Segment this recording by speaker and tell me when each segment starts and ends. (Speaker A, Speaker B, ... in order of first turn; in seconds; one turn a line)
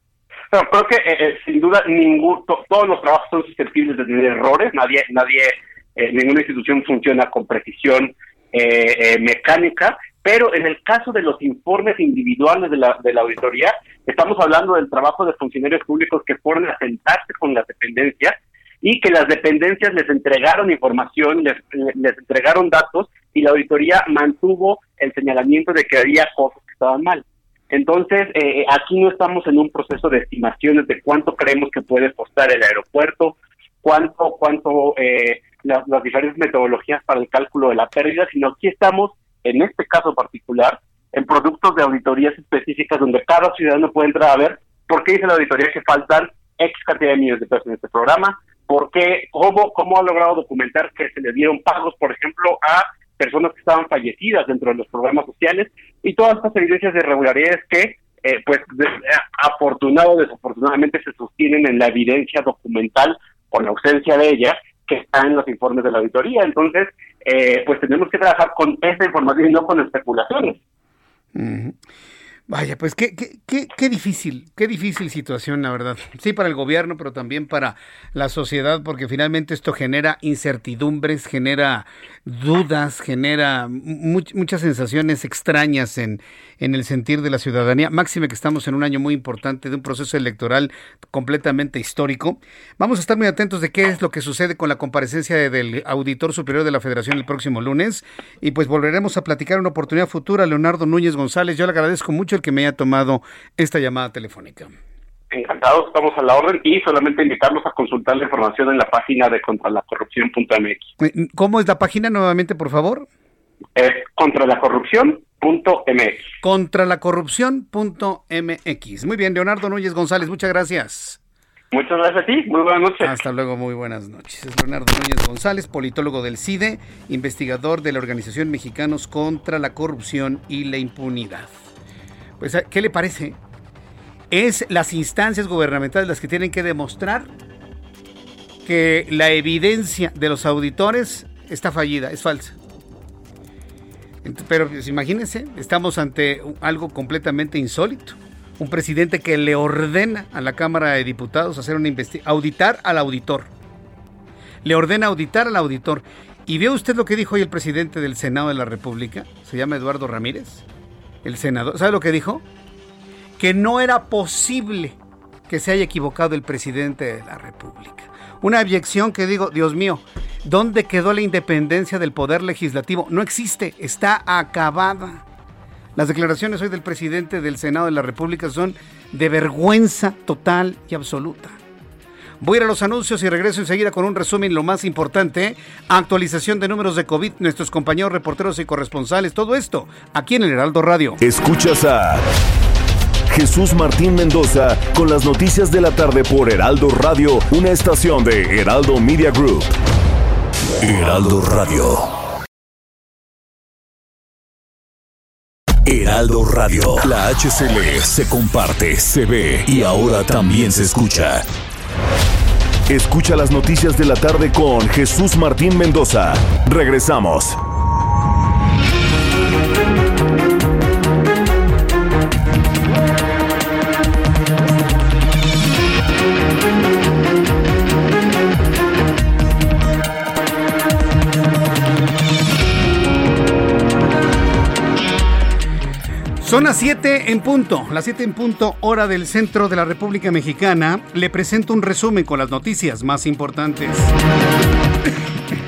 Speaker A: 0.5-70.6
Speaker B: 71.3-71.8
Speaker B: 72.5-104.7
Speaker A: 105.3-110.9
Speaker B: 111.0-113.1
Speaker A: 113.8-116.2
Speaker B: 116.4-121.2
Speaker A: 121.7-123.1
Speaker B: 123.0-131.5
Speaker B: 132.4-133.4
Speaker B: 134.3-137.3
Speaker B: 138.6-142.5
Speaker B: 144.2-153.5
Speaker B: 154.6-160.6
Speaker B: 161.2-162.4
Speaker B: 163.4-164.9
Speaker B: 165.5-175.2
Speaker B: 175.9-181.6
Speaker B: 182.4-191.2
Speaker C: 191.2-192.2
Speaker C: 193.3-199.7
Speaker C: 200.8-202.1
Speaker C: 205.8-211.4
Speaker C: 212.9-217.6
Speaker B: 236.4-244.1